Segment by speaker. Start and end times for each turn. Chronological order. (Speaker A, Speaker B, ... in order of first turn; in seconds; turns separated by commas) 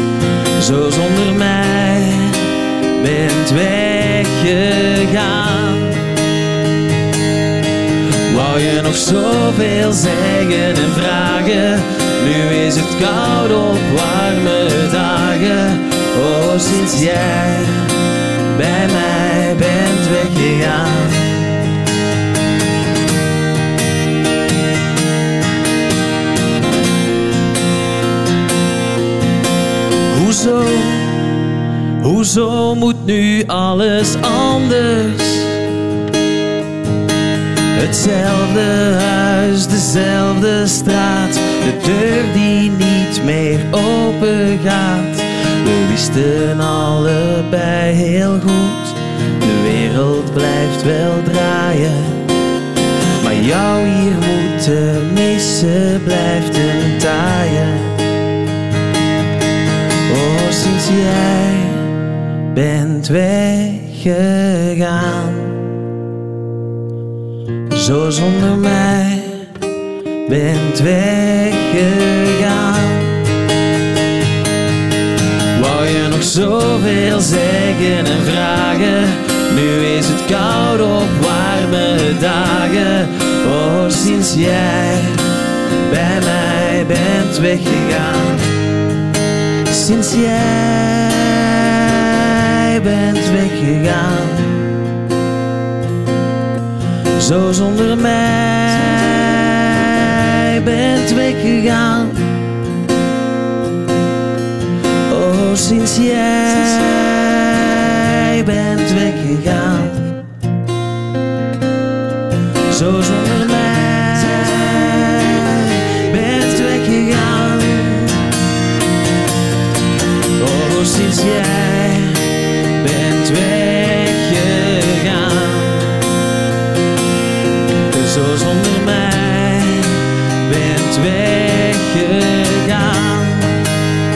Speaker A: 0.6-6.0, Speaker A: 8.3-17.9, Speaker A: 18.5-21.5, Speaker A: 30.1-31.3, Speaker A: 32.0-35.6, Speaker A: 37.7-52.2, Speaker A: 53.2-58.0, Speaker A: 60.1-61.9, Speaker A: 62.5-65.6, Speaker A: 67.7-69.5, Speaker A: 70.3-73.2, Speaker A: 75.5-85.2, Speaker A: 85.9-88.5, Speaker A: 89.7-94.6, Speaker A: 97.2-102.3, Speaker A: 105.1-110.2, Speaker A: 112.7-118.2, Speaker A: 120.4-126.0, Speaker A: 127.9-133.6